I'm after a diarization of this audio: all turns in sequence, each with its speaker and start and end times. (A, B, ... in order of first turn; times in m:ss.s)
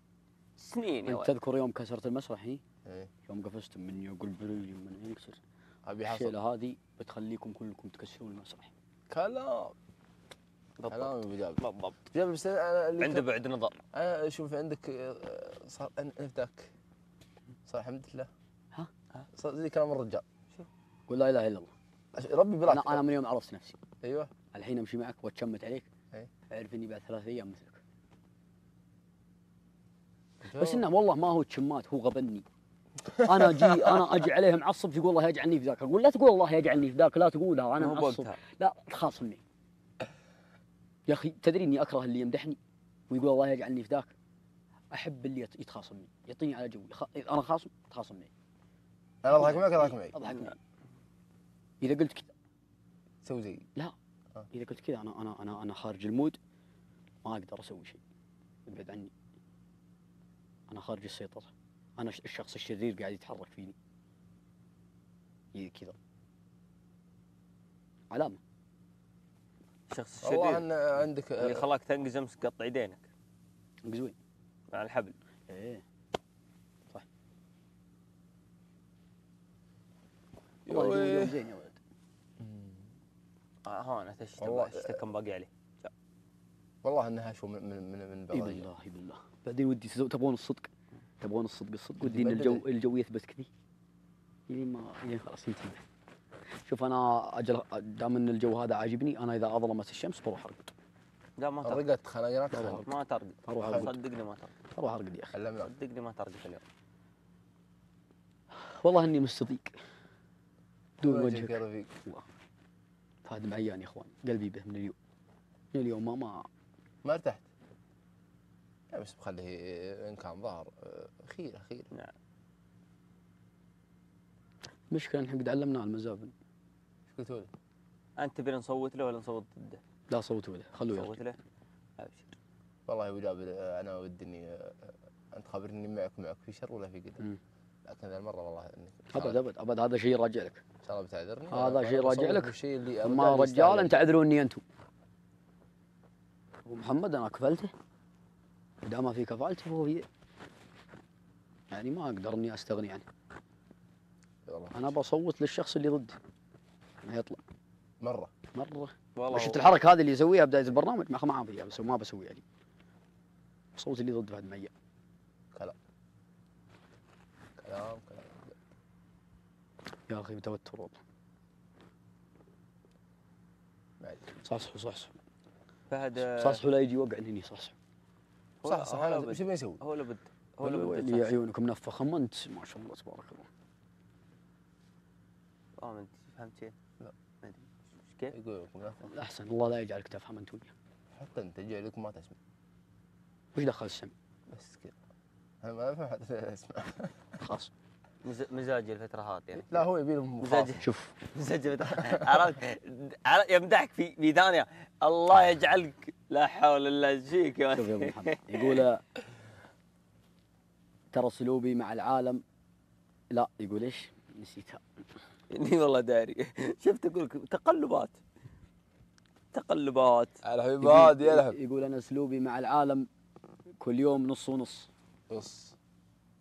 0:00.6-0:01.3 A
0:01.0-0:02.6 B
0:02.8-0:03.1 C
0:03.3-0:05.4 B
0:05.8-0:06.3 C
0:06.0-0:08.7 B
0:09.1-0:09.7 C
0:10.8-0:11.9 A
0:10.8-0:13.3 C
0:13.0-0:13.8 A
0:13.9-0:16.7 C
0:17.7-0:18.3 C
0:19.3-0:20.2 C
0:21.1-0:21.7 B
0:22.1-0:23.0 C
0:22.6-0:23.8 B
0:24.0-0:24.3 C
0:24.5-0:25.9 B
0:26.5-0:27.8 B
0:30.4-0:30.8 C
0:30.5-0:32.4 B
0:33.2-0:34.0 C
0:33.2-0:39.4 B
0:37.8-0:38.4 A
0:41.1-0:42.6 B
0:43.1-0:44.1 B
0:44.9-0:48.3 B
0:49.2-0:50.2 C
0:49.3-0:50.6 B
0:51.8-0:52.3 B
0:53.2-0:53.7 C
0:54.5-0:56.4 B
0:57.2-0:58.0 B
0:58.6-0:59.1 B
1:00.7-1:03.7 B
1:05.5-1:05.9 B
1:08.1-1:08.4 B
1:09.9-1:13.0 A
1:10.2-1:11.7 C
1:13.8-1:14.1 B
1:14.7-1:15.1 A
1:15.5-1:15.8 B
1:20.7-1:21.4 C
1:20.7-1:21.8 B
1:22.4-1:22.8 C
1:23.6-1:25.9 A
1:24.4-1:25.0 C
1:26.8-1:28.7 C
1:28.3-1:30.7 B
1:31.2-1:33.5 B
1:32.0-1:32.6 C
1:34.5-1:35.8 B
1:36.6-1:40.7 B
1:41.4-1:41.8 A
1:41.6-1:42.9 C
1:42.5-1:42.9 B
1:42.7-1:44.5 A
1:43.4-1:43.9 B
1:43.6-1:43.9 C
1:44.7-1:45.3 B
1:45.3-1:45.7 C
1:45.6-1:46.6 A
1:48.6-1:49.7 B
1:51.0-1:52.2 B
1:51.0-1:51.9 C
1:53.2-1:54.9 B
1:55.7-1:56.5 B
1:57.0-1:57.4 C
1:58.9-2:01.9 C
2:04.9-2:06.3 B
2:07.1-2:07.5 C
2:08.2-2:09.8 A
2:10.1-2:11.2 B
2:10.9-2:11.4 A
2:12.0-2:12.3 A
2:12.9-2:17.2 C
2:17.8-2:19.4 C
2:19.1-2:20.6 B
2:20.8-2:24.0 C
2:21.5-2:24.6 B
2:26.6-2:27.7 B
2:28.8-2:30.0 B
2:31.7-2:33.0 B
2:34.4-2:34.8 C
2:34.7-2:36.2 B
2:37.0-2:37.4 B
2:38.0-2:38.3 C
2:38.5-2:42.4 B
2:39.2-2:39.7 C
2:43.8-2:44.7 B
2:47.6-2:48.5 C
2:50.1-2:51.0 B
2:54.4-2:55.1 B
2:55.9-2:56.6 A
2:56.3-2:57.7 B
2:58.6-3:01.4 A
2:58.6-2:59.8 C
3:00.6-3:03.5 B
3:05.8-3:06.7 A
3:07.4-3:08.3 A
3:08.3-3:09.1 C
3:09.0-3:10.7 B
3:11.2-3:12.4 C
3:13.5-3:14.1 B
3:14.5-3:14.9 C
3:15.6-3:17.2 C
3:17.4-3:17.7 B
3:18.2-3:19.9 A
3:19.7-3:20.8 C
3:20.4-3:28.8 A
3:20.8-3:21.1 B
3:27.7-3:29.0 B
3:31.1-3:32.4 B
3:33.3-3:34.8 B
3:35.5-3:38.2 A
3:39.5-3:40.4 A
3:40.4-3:41.6 C
3:40.8-3:43.1 B
3:43.8-3:44.9 B
3:45.3-3:45.7 C